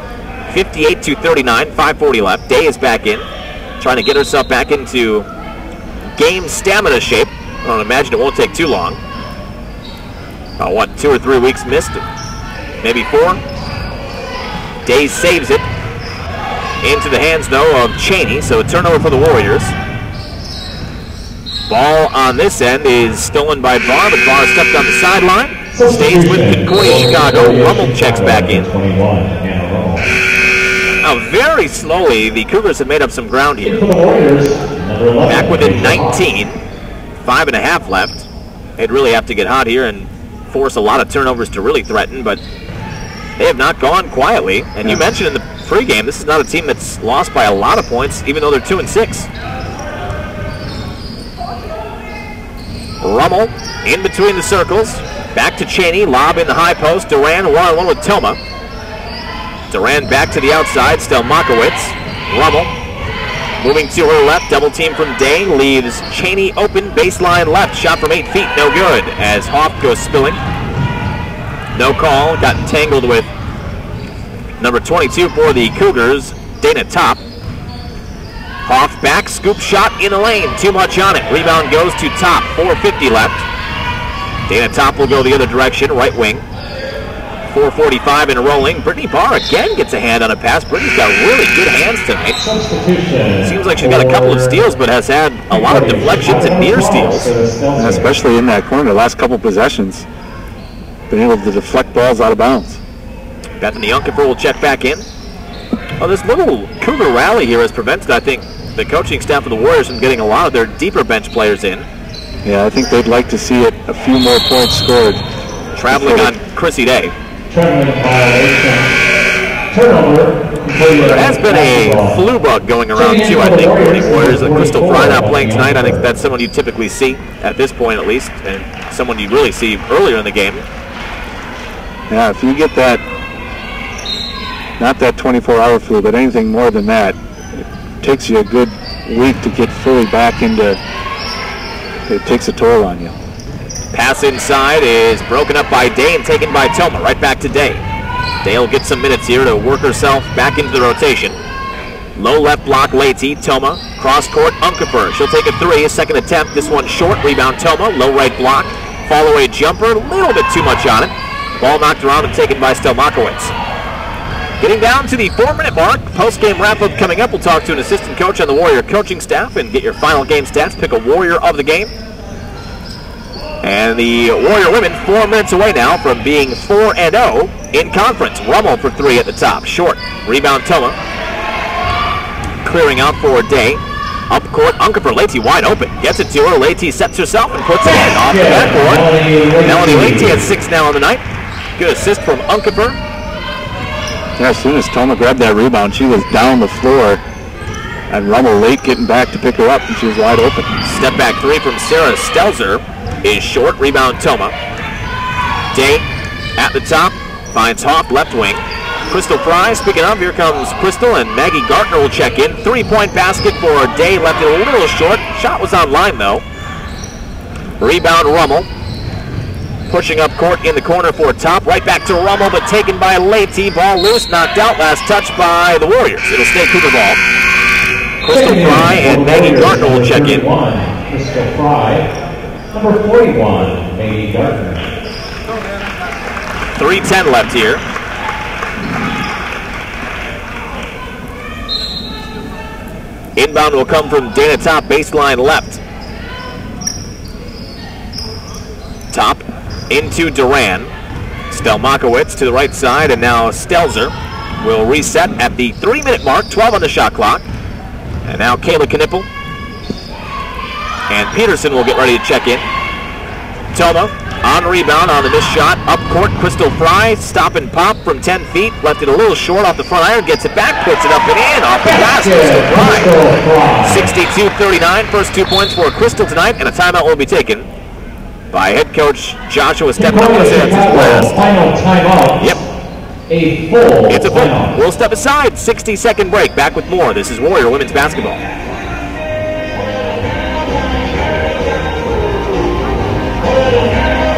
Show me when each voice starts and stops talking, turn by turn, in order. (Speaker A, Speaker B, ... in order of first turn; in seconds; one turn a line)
Speaker A: 0.5-3.3
Speaker A: 3.8-5.3
Speaker A: 6.2-9.0
Speaker A: 10.6-12.0
Speaker A: 12.8-13.4
Speaker A: 14.8-15.7
Speaker A: 16.8-19.7
Speaker A: 21.7-28.6
Speaker B: 25.7-30.1
Speaker A: 31.0-33.8
Speaker B: 33.6-36.2
Speaker A: 35.3-36.6
Speaker A: 37.2-38.3
Speaker A: 38.8-42.4
Speaker A: 43.4-49.3
Speaker A: 53.0-58.4
Speaker A: 59.7-62.7
Speaker A: 63.6-70.4
Speaker A: 71.7-73.3
Speaker A: 74.6-77.2
Speaker A: 78.6-83.4
Speaker A: 84.5-86.4
Speaker A: 87.5-92.4
Speaker B: 92.4-94.6
Speaker A: 93.4-97.3
Speaker B: 95.5-98.1
Speaker C: 97.8-100.0
Speaker C: 101.1-102.8
Speaker A: 103.6-105.0
Speaker A: 106.0-111.8
Speaker C: 112.4-115.2
Speaker A: 115.7-117.1
Speaker C: 115.9-116.3
Speaker B: 117.5-118.9
Speaker B: 119.7-122.2
Speaker A: 121.0-130.6
Speaker B: 122.9-126.0
Speaker C: 132.1-133.0
Speaker C: 134.8-140.8
Speaker C: 142.1-143.1
Speaker A: 143.9-147.8
Speaker A: 148.4-151.3
Speaker A: 152.2-163.5
Speaker A: 164.6-171.9
Speaker A: 173.6-181.0
Speaker A: 182.6-189.1
Speaker B: 187.8-190.4
Speaker A: 189.6-191.2
Speaker A: 191.8-193.0
Speaker C: 194.4-197.2
Speaker C: 198.1-200.7
Speaker A: 200.8-204.5
Speaker A: 205.7-206.1
Speaker A: 206.6-216.4
Speaker A: 217.8-218.7
Speaker A: 219.9-227.2
Speaker A: 228.2-230.4
Speaker B: 228.3-232.1
Speaker B: 232.7-234.9
Speaker A: 236.8-237.8
Speaker A: 243.3-245.8
Speaker A: 249.1-250.9
Speaker A: 251.5-257.4
Speaker A: 258.2-259.3
Speaker A: 261.1-262.7
Speaker A: 263.7-273.1
Speaker B: 271.8-274.1
Speaker A: 273.8-277.7
Speaker A: 278.5-281.4
Speaker B: 279.9-282.6
Speaker B: 283.3-284.7
Speaker A: 284.1-288.4